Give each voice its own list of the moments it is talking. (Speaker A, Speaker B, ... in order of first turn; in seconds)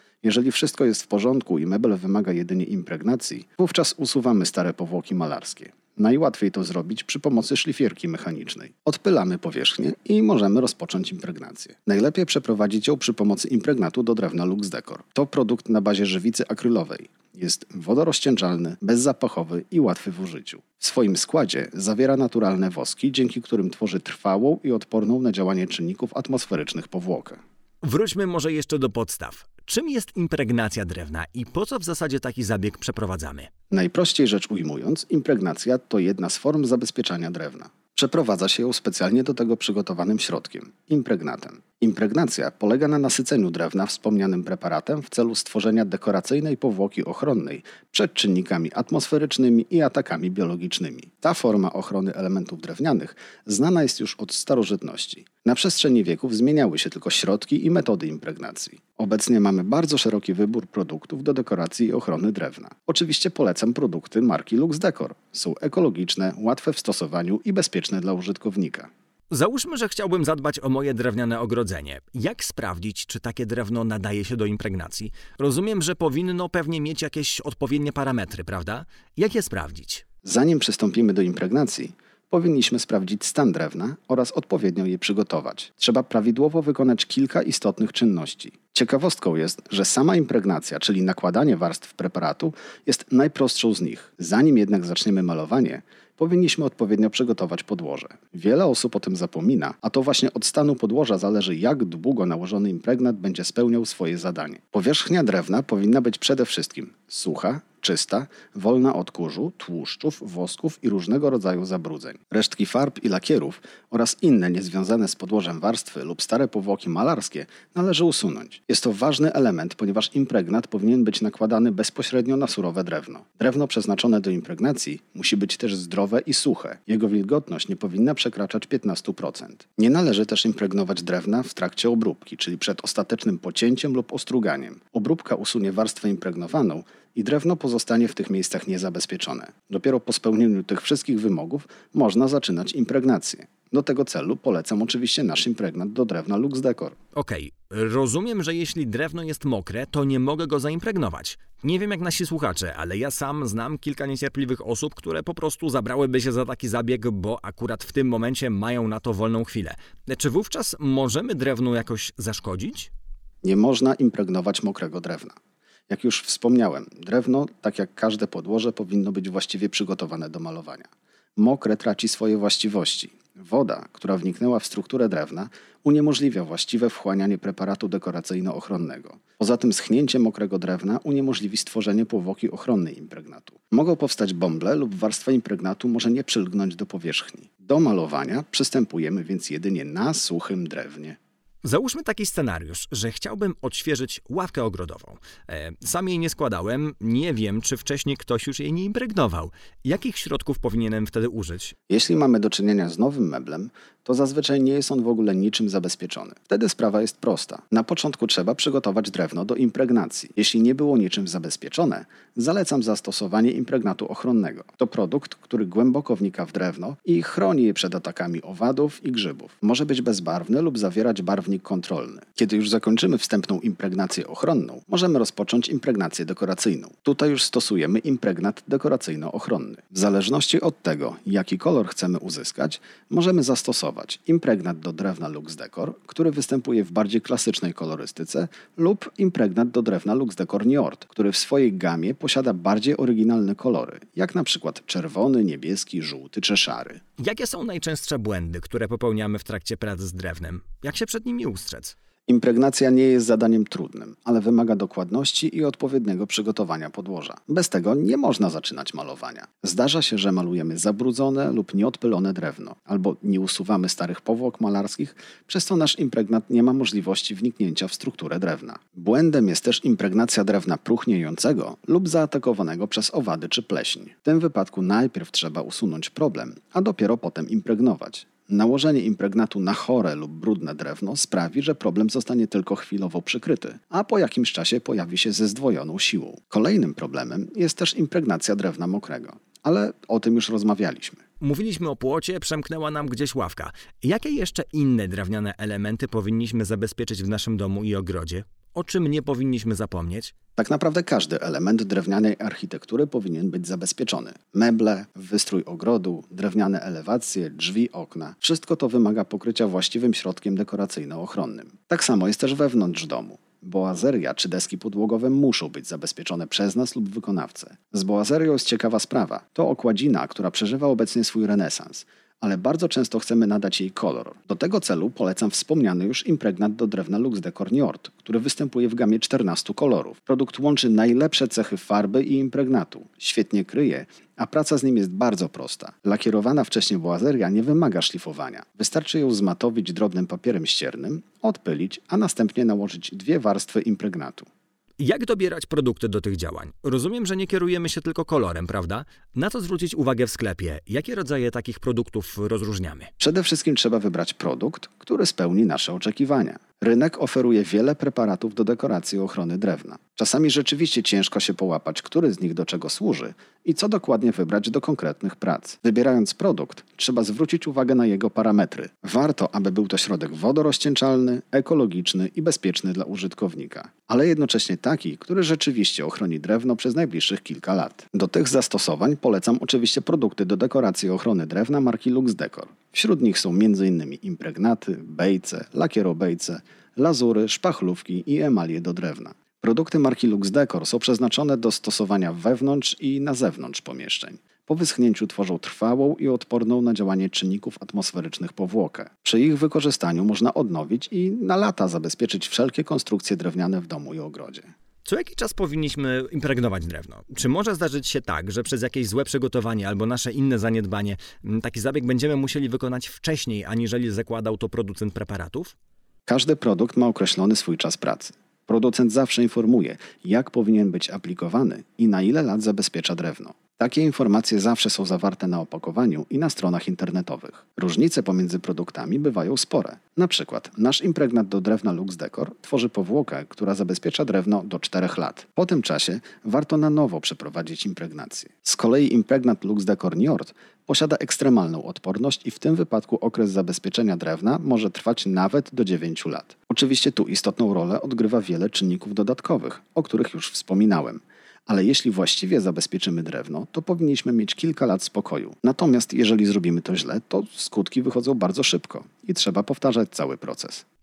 Speaker A: 0.2-27.4, 33.7-68.9, 80.2-147.0, 163.4-165.3, 165.9-191.2, 201.9-247.0, 252.3-291.2, 300.6-344.5, 353.2-404.7, 416.3-460.9
Speaker B: 27.8-33.5, 69.3-80.0, 147.2-162.9, 191.6-201.7, 247.2-252.0, 291.4-300.3, 345.0-353.1, 405.1-415.8